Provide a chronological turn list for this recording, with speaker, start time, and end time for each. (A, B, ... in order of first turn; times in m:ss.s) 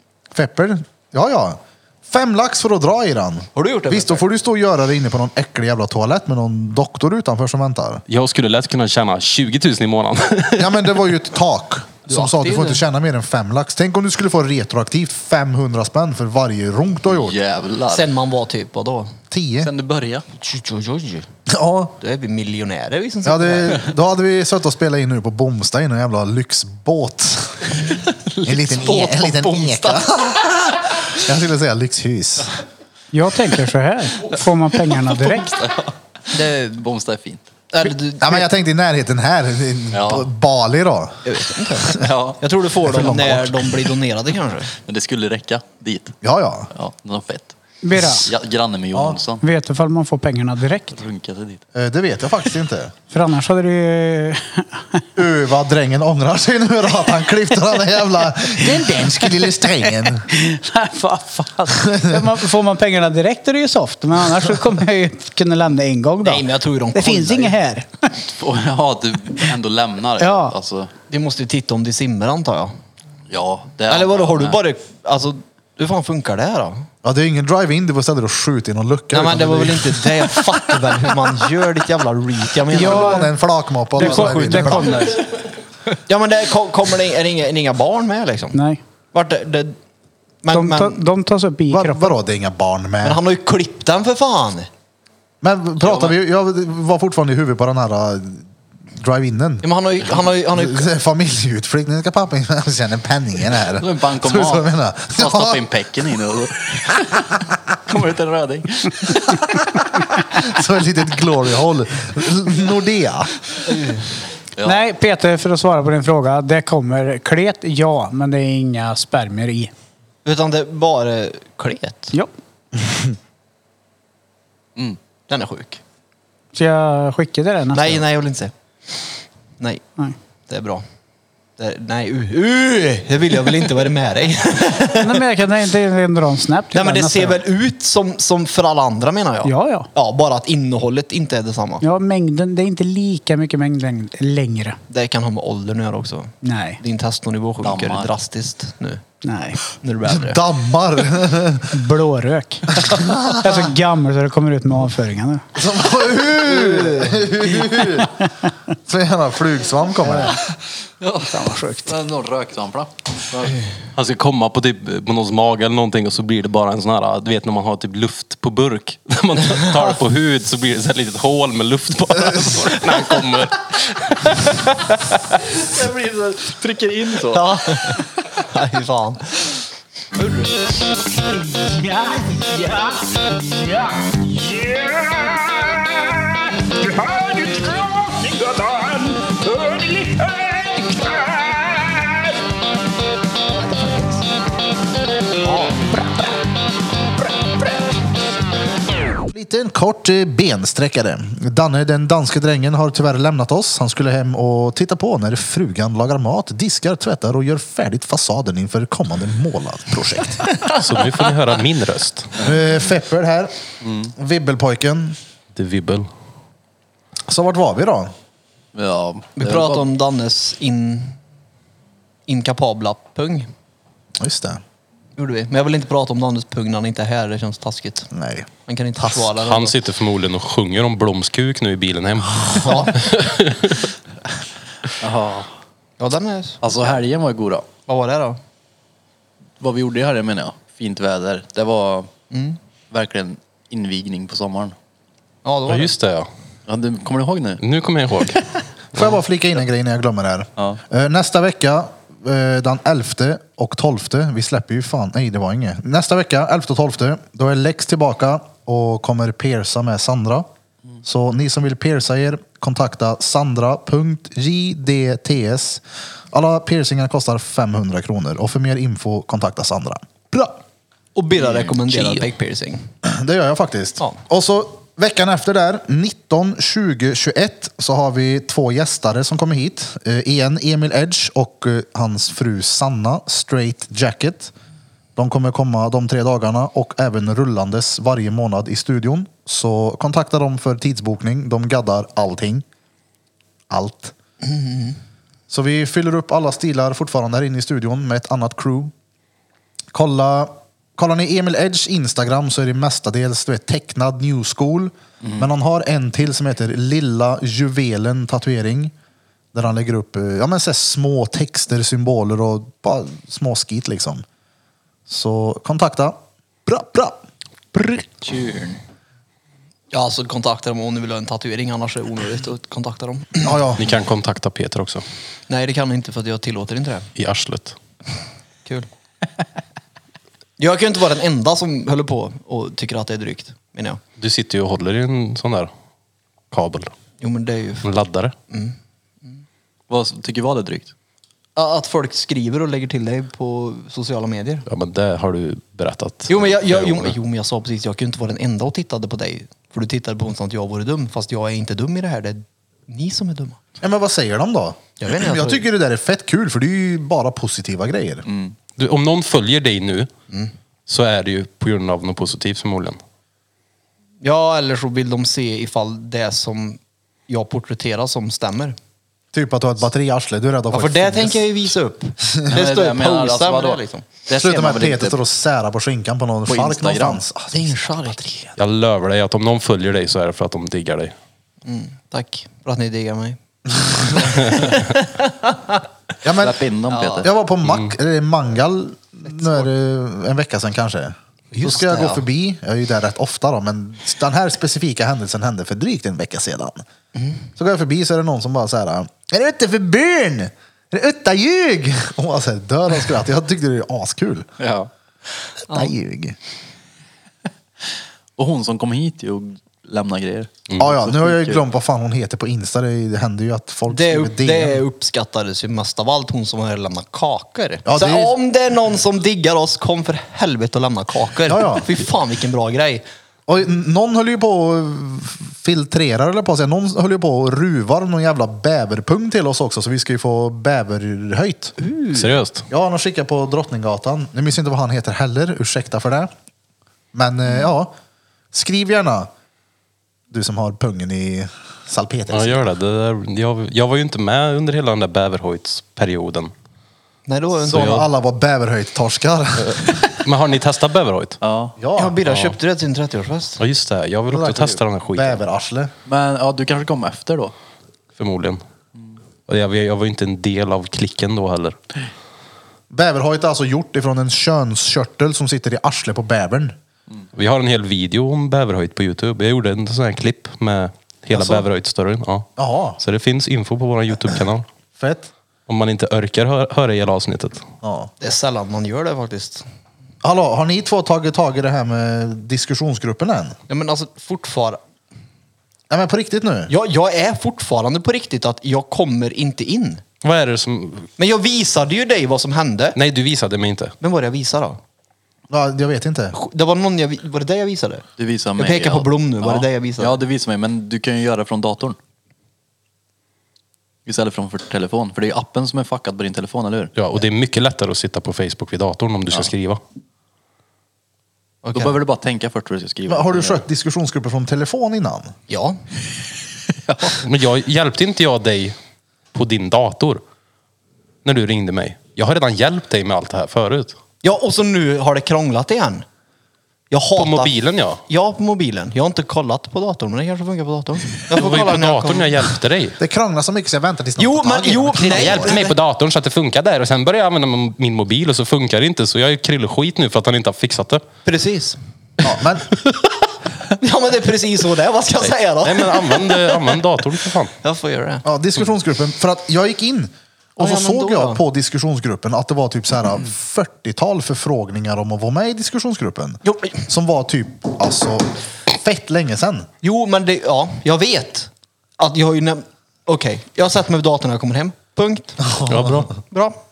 0:00.3-0:08.0 A
0:03.6-0:04.2 B
0:08.1-0:10.7 C
0:10.6-0:17.4 A
0:12.1-0:12.8 B
0:17.1-0:18.1 D
0:17.9-0:19.2 B
0:19.3-0:19.7 A
0:19.6-0:20.2 D
0:20.3-0:21.3 B
0:21.5-0:22.0 A
0:22.0-0:23.9 B
0:23.2-0:27.8 A
0:28.3-0:30.0 D
0:28.4-0:32.5 A
0:29.3-0:29.6 B
0:33.1-0:35.5 E
0:34.9-0:37.5 D
0:37.7-0:38.5 B
0:37.8-0:42.0 A
0:39.9-0:40.3 D
0:41.2-0:44.7 B
0:41.9-0:42.4 D
0:42.8-0:43.7 A
0:44.8-0:46.2 D
0:46.2-0:46.7 A
0:46.7-0:49.4 D
0:47.8-0:48.3 E
0:48.9-0:49.2 A
0:49.4-0:51.0 E
0:50.9-0:51.6 D
0:51.7-0:52.9 A
0:53.1-0:55.0 E
0:55.2-1:00.3 A
1:00.1-1:08.1 E
1:01.7-1:02.3 A
1:06.2-1:07.5 B
1:08.1-1:10.9 D
1:10.2-1:10.5 E
1:11.1-1:12.7 B
1:13.3-1:14.6 D
1:13.9-1:16.9 B
1:17.0-1:20.5 A
1:19.1-1:23.3 B
1:22.7-1:23.3 E
1:22.7-1:25.1 A
1:24.0-1:25.2 E
1:24.0-1:25.1 B
1:26.1-1:28.6 B
1:28.5-1:28.8 E
1:29.1-1:29.8 B
1:30.4-1:31.0 B
1:30.5-1:32.1 E
1:31.7-1:33.2 A
1:33.0-1:34.7 B
1:35.4-1:38.5 A
1:35.8-1:36.1 D
1:39.0-1:39.6 A
1:39.6-1:40.9 B
1:40.4-1:45.6 A
1:43.8-1:49.6 D
1:50.2-1:53.3 A
1:53.7-1:54.0 B
1:54.6-1:59.7 E
2:00.2-2:02.1 B
2:05.3-2:05.8 B
2:06.5-2:08.0 E
2:07.7-2:08.5 B
2:10.5-2:10.8 B
2:11.6-2:15.2 B
2:14.9-2:17.4 E
2:16.7-2:21.8 B
2:19.4-2:19.9 E
2:21.8-2:24.8 E
2:24.9-2:29.0 B
2:26.4-2:26.8 E
2:27.6-2:28.1 D
2:29.2-2:29.6 E
2:29.6-2:30.4 B
2:30.1-2:31.7 A
2:31.7-2:35.4 E
2:32.7-2:33.7 A
2:35.5-2:38.2 A
2:36.5-2:37.3 B
2:38.8-2:40.4 A
2:40.0-2:40.4 E
2:41.0-2:41.3 D
2:41.2-2:41.9 E
2:41.8-2:43.6 D
2:44.0-2:55.4 C
2:55.7-2:57.5 D
2:57.3-2:59.4 B
3:00.2-3:00.4 D
3:01.8-3:02.3 E
3:05.0-3:05.3 D
3:08.5-3:08.8 E
3:09.8-3:10.1 E
3:15.5-3:15.8 B
3:19.2-3:30.6 A
3:30.7-3:32.3 C
3:32.4-3:33.5 A
3:33.8-3:34.1 D
3:34.2-3:35.2 A
3:35.5-3:36.1 C
3:37.3-3:38.1 A
3:38.7-3:39.8 D
3:39.4-3:41.2 B
3:42.3-3:43.5 B
3:44.2-3:44.6 A
3:45.2-3:48.1 B
3:48.1-3:48.5 A
3:48.6-3:49.7 B
3:49.3-3:53.9 C
3:52.6-3:53.0 B
3:55.0-3:55.5 D
3:56.0-3:56.6 B
3:56.6-3:57.7 D
3:57.9-3:58.4 B
3:59.6-4:02.1 D
4:02.3-4:02.6 B
4:02.9-4:04.8 D
4:05.4-4:05.9 B
4:05.7-4:06.3 C
4:06.7-4:07.6 D
4:07.6-4:08.4 C
4:08.9-4:20.5 A
4:21.0-4:30.6 A
4:31.1-4:32.9 B
4:31.9-4:32.2 C
4:33.0-4:44.5 A
4:45.2-4:52.6 A
4:53.7-4:54.1 A
4:54.4-4:55.0 B
4:55.5-4:58.9 A
4:59.9-5:08.9 A
5:05.2-5:05.5 D
5:09.5-5:14.2 A
5:15.1-5:17.2 A
5:17.7-5:18.0 A
5:18.2-5:18.8 D
5:19.9-5:23.6 B
5:23.4-5:23.9 A
5:23.8-5:25.0 C
5:25.5-5:27.1 B
5:27.2-5:27.8 C
5:30.6-5:34.0 B
5:34.2-5:35.7 C
5:36.5-5:36.9 C
5:37.2-5:37.9 B
5:37.8-5:38.3 C
5:38.5-5:38.7 B
5:39.9-5:40.9 D
5:41.6-5:44.6 B
5:44.6-5:47.1 C
5:46.3-5:53.6 B
5:53.8-5:58.2 A
5:55.0-5:55.6 B
5:58.2-5:58.6 D
5:58.8-6:00.1 C
6:00.9-6:03.0 C
6:04.2-6:08.8 B
6:09.3-6:11.5 A
6:10.7-6:14.1 B
6:12.2-6:12.6 A
6:12.5-6:15.2 D
6:14.4-6:18.1 A
6:16.5-6:17.2 D
6:17.5-6:18.5 B
6:18.6-6:21.1 C
6:21.6-6:25.8 B
6:26.2-6:26.6 A
6:26.4-6:27.3 D
6:26.9-6:27.3 B
6:27.2-6:36.8 A
6:27.6-6:27.9 C
6:31.5-6:32.2 B
6:37.1-6:37.4 B
6:37.6-6:44.5 A
6:44.6-6:44.9 D
6:45.7-6:46.4 A
6:48.4-6:51.6 D
6:50.8-6:54.8 A
6:53.9-7:03.0 B
6:57.8-6:58.3 A
7:01.5-7:01.8 A
7:03.5-7:11.8 A
7:11.8-7:12.4 B
7:12.1-7:12.6 C
7:12.7-7:16.3 A
7:17.1-7:17.9 A
7:18.5-7:19.3 A
7:20.3-7:22.7 A
7:22.3-7:26.5 C
7:27.3-7:28.0 B
7:27.7-7:30.0 A
7:27.7-7:28.1 C
7:29.6-7:31.4 C
7:31.4-7:31.8 D
7:31.8-7:32.2 A
7:31.9-7:33.6 B
7:32.2-7:32.6 C
7:33.6-7:35.4 C
7:34.3-7:35.9 A
7:36.0-7:37.5 D
7:38.2-7:38.6 C
7:39.5-7:41.8 C
7:42.9-7:46.7 A
7:47.3-7:52.5 C
7:51.3-7:51.6 A
7:52.6-7:53.0 A
7:53.0-7:54.6 C
7:55.0-7:55.3 A
7:55.7-7:57.6 C
7:57.8-7:58.1 A
7:58.2-7:59.6 B
8:00.2-8:03.6 A
8:03.7-8:04.8 B
8:05.9-8:06.7 A
8:06.7-8:10.0 B
8:10.2-8:11.1 C
8:11.2-8:13.0 B
8:12.9-8:13.9 C
8:14.0-8:14.8 B
8:15.5-8:16.4 A
8:16.3-8:18.0 B
8:18.2-8:22.0 D
8:18.6-8:20.2 B
8:24.0-8:26.9 D
8:27.0-8:29.8 C
8:31.6-8:32.0 B
8:31.7-8:33.6 D
8:33.1-8:35.3 A
8:35.5-8:35.8 B
8:36.8-8:37.2 D
8:37.2-8:38.7 C
8:39.3-8:40.2 C
8:41.2-8:44.0 C
8:44.2-8:46.0 B
8:46.9-8:47.6 B
8:47.1-8:48.0 C
8:48.1-8:52.5 B
8:51.3-8:53.0 C
8:53.0-8:55.6 A
8:54.2-8:55.7 B
8:55.0-9:01.0 C
9:01.2-9:01.8 B
9:02.2-9:02.7 A
9:03.7-9:06.8 B
9:05.3-9:07.5 C
9:07.6-9:08.2 B
9:08.2-9:19.7 A
9:10.6-9:11.4 B
9:16.4-9:16.8 B
9:19.8-9:25.5 B
9:25.4-9:26.1 A
9:25.7-9:26.1 C
9:26.3-9:26.6 B